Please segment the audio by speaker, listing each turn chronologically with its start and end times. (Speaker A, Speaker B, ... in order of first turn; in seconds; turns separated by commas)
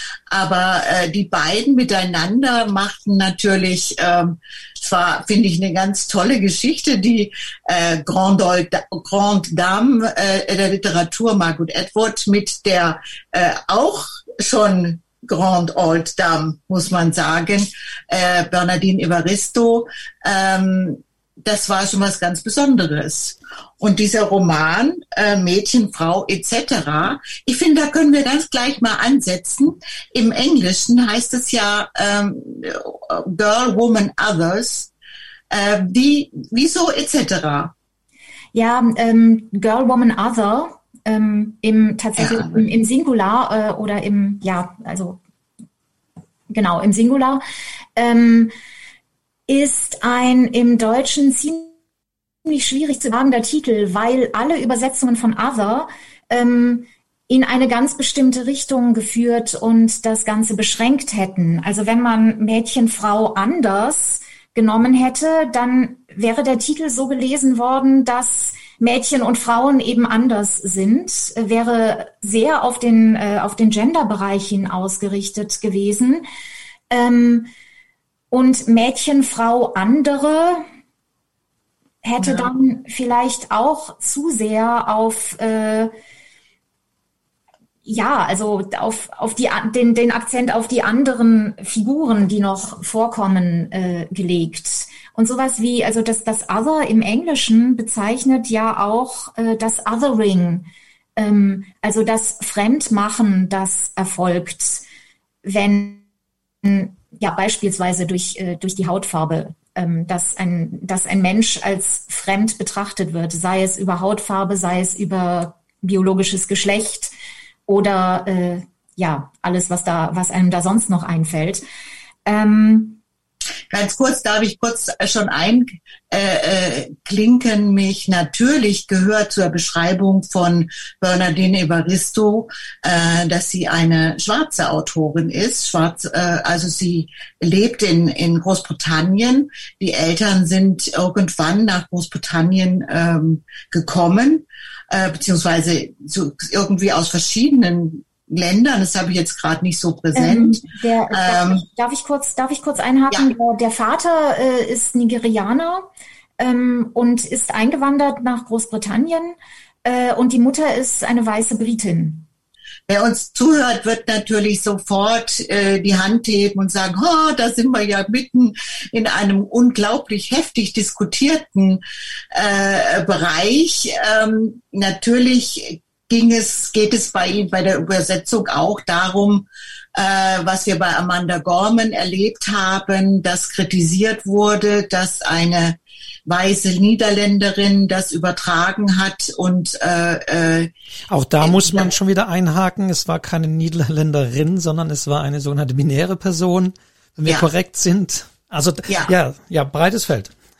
Speaker A: 0.3-34.9, Speaker A: 35.5-37.7, Speaker B: 38.5-45.2, Speaker A: 42.2-42.6, Speaker B: 46.5-47.4, Speaker B: 48.0-48.5, Speaker B: 49.5-51.8, Speaker B: 52.5-76.3, Speaker B: 76.9-77.5, Speaker B: 78.3-80.7, Speaker B: 82.0-85.9, Speaker A: 82.2-82.5, Speaker B: 87.9-104.8, Speaker B: 105.4-106.0, Speaker B: 106.6-117.1, Speaker B: 117.7-121.6, Speaker B: 122.3-123.0, Speaker A: 123.7-151.6, Speaker B: 150.2-155.9, Speaker B: 156.4-162.3, Speaker A: 162.9-171.8, Speaker A: 172.3-190.7, Speaker C: 191.1-200.3, Speaker A: 191.4-191.9, Speaker A: 198.9-199.1